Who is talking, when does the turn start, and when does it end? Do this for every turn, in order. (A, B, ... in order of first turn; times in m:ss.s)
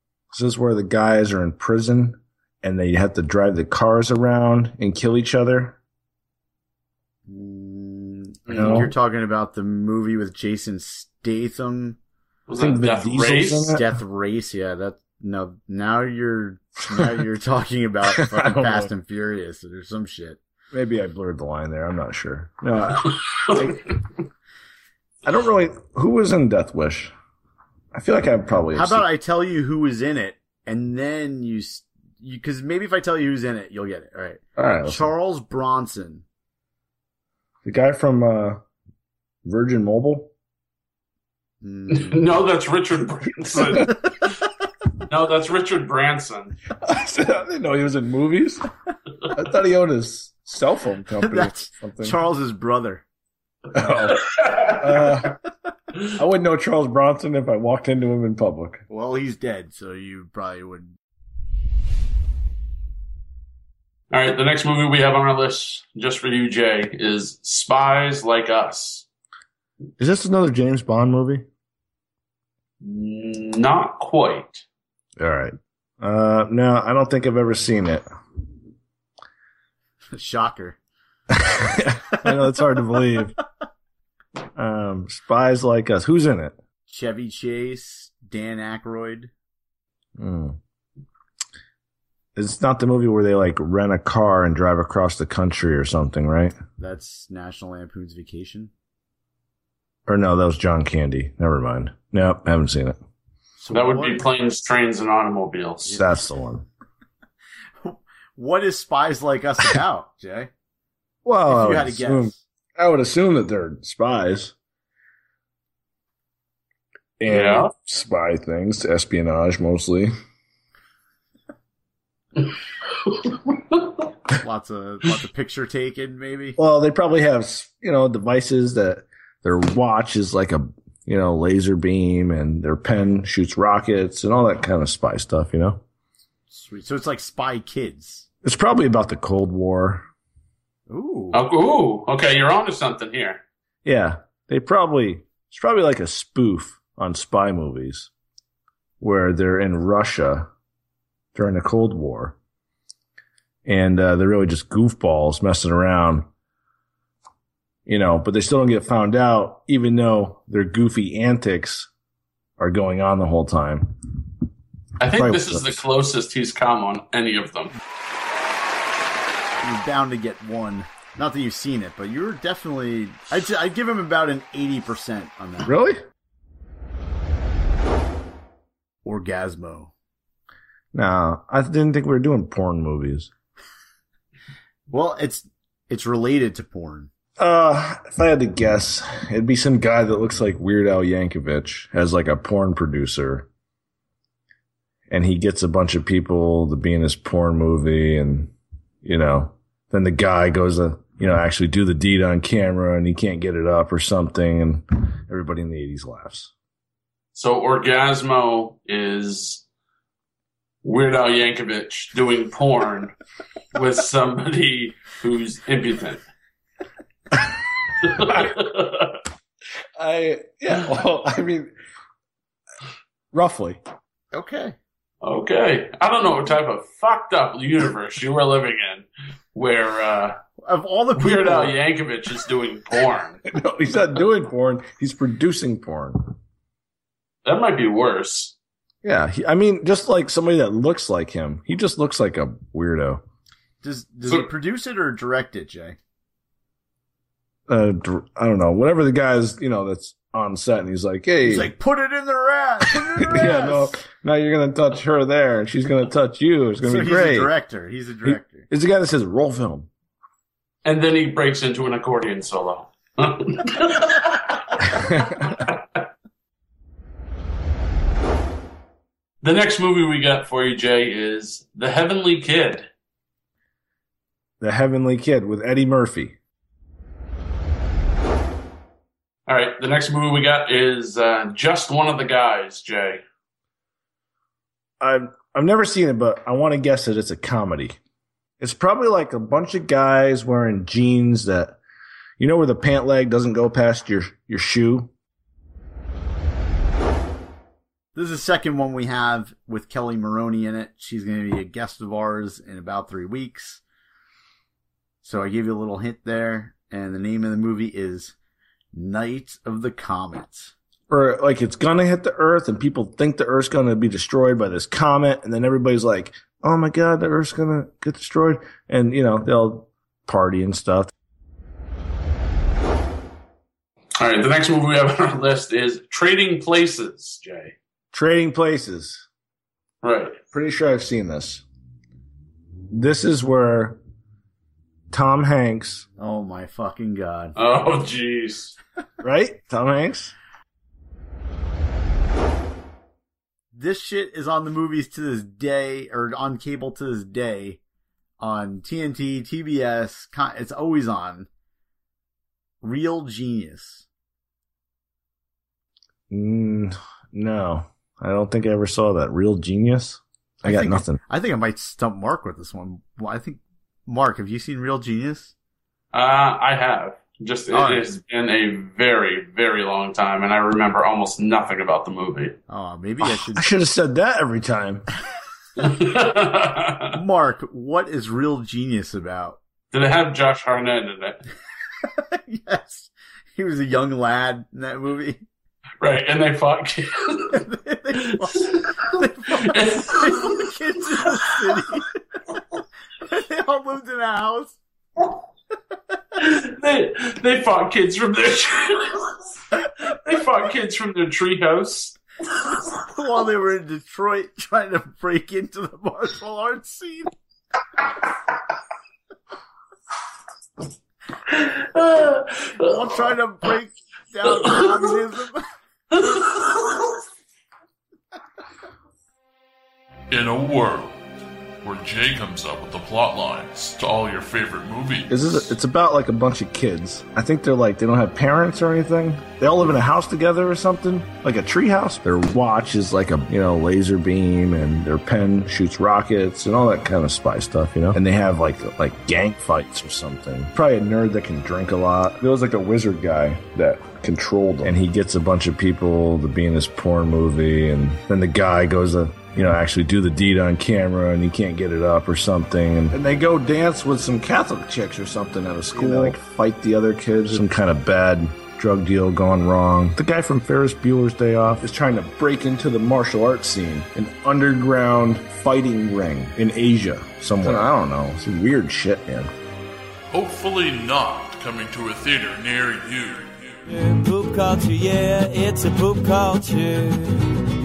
0:00.3-0:05.8 A
0:07.3-0:12.0 B
0:08.5-0:08.9 A
0:08.5-0:08.9 C
0:12.5-0:13.8 C
0:12.6-0:13.9 A
0:13.7-0:20.4 B
0:18.1-0:18.9 A
0:20.7-0:23.9 A
0:25.2-0:27.1 A
0:27.9-0:29.1 A
0:28.7-0:36.2 B
0:34.6-0:35.1 A
0:37.6-0:38.6 A
0:39.4-0:40.3 A
0:41.6-0:42.2 B
0:41.9-0:44.3 C
0:45.1-0:46.6 C
0:46.8-0:48.7 A
0:49.3-0:52.2 A
0:51.2-0:53.0 B
0:53.7-0:55.4 A
0:54.3-0:55.1 C
0:56.1-0:58.8 A
0:58.9-1:00.9 B
1:04.1-1:09.0 C
1:10.0-1:11.4 A
1:12.8-1:14.6 C
1:15.2-1:18.0 A
1:20.1-1:20.8 B
1:21.3-1:23.4 A
1:24.6-1:26.6 A
1:26.9-1:29.3 B
1:30.2-1:30.6 A
1:32.4-1:36.6 A
1:36.8-1:38.7 B
1:40.1-1:43.0 A
1:43.6-1:44.2 B
1:43.7-1:46.0 C
1:45.9-1:46.6 A
1:47.8-1:50.5 B
1:51.2-1:54.5 A
1:51.5-1:52.4 B
1:57.2-2:00.1 A
1:57.3-1:57.7 C
2:02.9-2:03.8 C
2:04.4-2:06.6 B
2:06.6-2:15.8 A
2:16.5-2:18.3 B
2:18.4-2:20.1 A
2:20.9-2:21.4 B
2:21.3-2:23.4 C
2:23.8-2:28.1 A
2:29.0-2:30.5 A
2:31.3-2:32.4 A
2:33.6-2:36.3 A
2:37.9-2:41.9 A
2:42.6-2:44.0 A
2:45.0-2:47.7 C
2:45.1-2:45.8 A
2:49.6-2:55.7 B
2:55.6-2:56.0 A
2:59.0-2:59.9 B
3:00.9-3:03.3 A
3:04.9-3:07.1 B
3:07.4-3:13.5 A
3:15.1-3:18.5 A
3:19.0-3:26.5 A
3:27.4-3:29.6 C
3:30.8-3:33.1 C
3:33.7-3:36.2 C
3:38.0-3:39.2 C
3:40.0-3:41.7 A
3:43.3-3:43.8 A
3:44.3-3:44.8 B
3:45.2-3:50.4 C
3:50.6-3:51.7 B
3:51.2-3:53.4 C
3:53.5-3:56.4 A
3:57.4-3:58.6 C
3:59.0-4:03.2 A
4:03.8-4:06.0 B
4:07.7-4:11.7 A
4:11.4-4:13.9 B
4:13.2-4:17.5 A
4:16.8-4:18.7 B
4:18.2-4:19.9 A
4:20.8-4:25.7 C
4:24.9-4:25.6 A
4:29.4-4:32.9 C
4:34.6-4:36.4 A
4:39.5-4:43.2 C
4:45.0-4:48.0 A
4:48.6-4:51.8 A
4:52.4-4:55.1 A
4:58.1-5:03.8 B
5:05.2-5:08.3 B
5:08.9-5:10.7 B
5:11.1-5:21.1 A
5:24.2-5:27.7 C
5:28.1-5:29.2 A
5:30.0-5:30.4 C
5:30.5-5:31.6 A
5:32.9-5:34.0 A
5:35.1-5:36.1 A
5:36.2-5:37.6 B
5:37.6-5:38.8 C
5:39.2-5:40.3 A
5:43.7-5:47.8 B
5:48.4-5:51.5 B
5:52.8-5:54.1 B
5:56.3-6:01.2 A
6:00.6-6:05.5 B
6:06.1-6:12.6 C
6:07.7-6:08.1 B
6:12.7-6:13.7 B
6:13.2-6:15.1 A
6:15.8-6:17.1 C
6:17.1-6:19.6 B
6:19.9-6:21.4 C
6:22.1-6:25.4 B
6:26.0-6:27.6 C
6:27.5-6:32.1 B
6:28.6-6:30.7 C
6:33.2-6:34.8 B
6:36.4-6:42.6 C
6:43.0-6:47.3 B
6:51.5-6:52.9 C
6:52.8-6:55.6 B
6:54.8-6:55.1 C
6:56.1-6:57.2 C
7:00.3-7:01.2 D
7:01.8-7:05.7 D
7:05.3-7:49.5 A
7:35.9-7:36.4 B
7:50.3-7:53.8 D
7:53.9-7:57.6 E